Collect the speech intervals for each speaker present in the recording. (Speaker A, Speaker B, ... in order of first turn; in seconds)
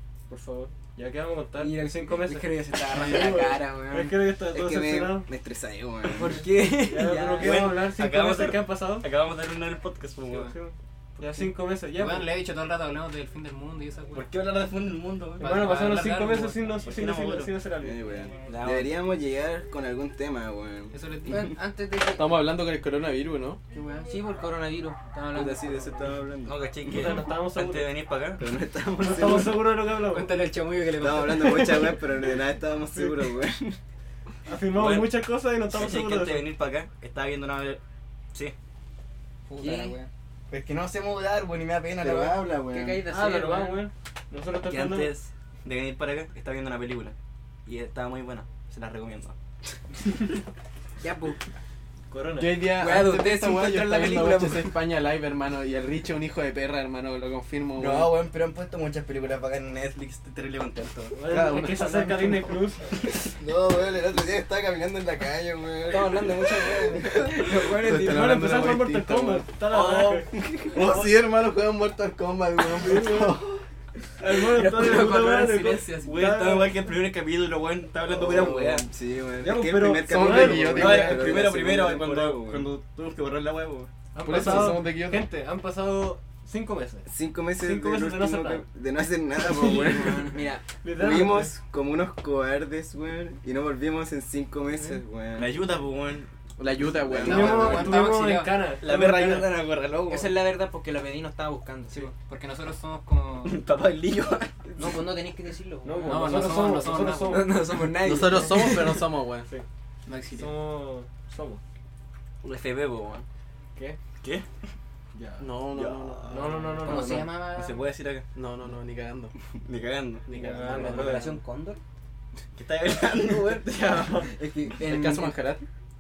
Speaker A: 0.3-5.3, 6.2-9.1, 10.3-12.3, 15.4-18.0, 26.9-27.9, 29.0-30.4, 32.8-33.2, 34.5-36.5, 43.1-45.1, 52.1-52.5, 61.1-63.0, 68.0-70.3, 72.8-73.4, 74.2-76.9, 79.4-81.2, 84.1-87.1, 87.6-88.7, 89.5-90.1, 90.8-91.5, 97.2-99.5, 105.8-107.6, 110.3-111.6, 115.1-115.5, 116.3-117.4, 120.3-121.4, 123.7-124.3
Speaker B: 1.6-4.1, 6.1-7.6, 21.3-22.3, 23.7-26.0, 39.6-40.0, 42.7-43.9, 51.0-51.4, 52.6-54.8, 65.9-68.4, 74.3-76.2, 89.4-90.7, 100.1-102.1, 104.8-106.7, 107.3-109.0, 116.8-117.8, 120.3-121.8, 124.2-125.5
Speaker C: 4.5-6.5, 17.8-21.4, 25.3-26.6, 28.4-29.6, 31.0-33.8, 42.0-43.0, 63.2-67.0, 70.3-70.8, 78.1-82.7, 87.1-90.3, 91.0-95.6, 97.1-97.9
Speaker D: 7.4-10.5, 14.1-15.8, 16.9-17.5, 18.5-18.9, 26.4-28.5, 34.7-35.1, 35.7-37.8, 40.5-42.4, 44.6-47.1, 47.7-49.4, 57.8-61.2, 69.7-70.3, 75.9-78.8, 80.7-83.9, 95.4-96.3, 97.1-97.9, 98.8-100.4, 103.4-104.5, 112.4-113.3, 114.2-114.5, 115.7-118.3, 119.6-120.3, 122.5-124.1
Speaker E: 11.9-14.3, 15.4-16.9, 20.9-21.5, 30.0-32.0, 39.5-40.1, 97.3-98.8, 102.1-103.6, 106.0-107.5, 110.1-110.5
Speaker F: 22.1-23.6, 52.4-58.2, 61.3-62.6, 67.7-69.5, 70.7-73.6, 80.0-81.5, 84.2-85.3, 96.6-97.9, 107.8-109.5, 115.4-116.6, 118.3-119.3, 124.7-125.7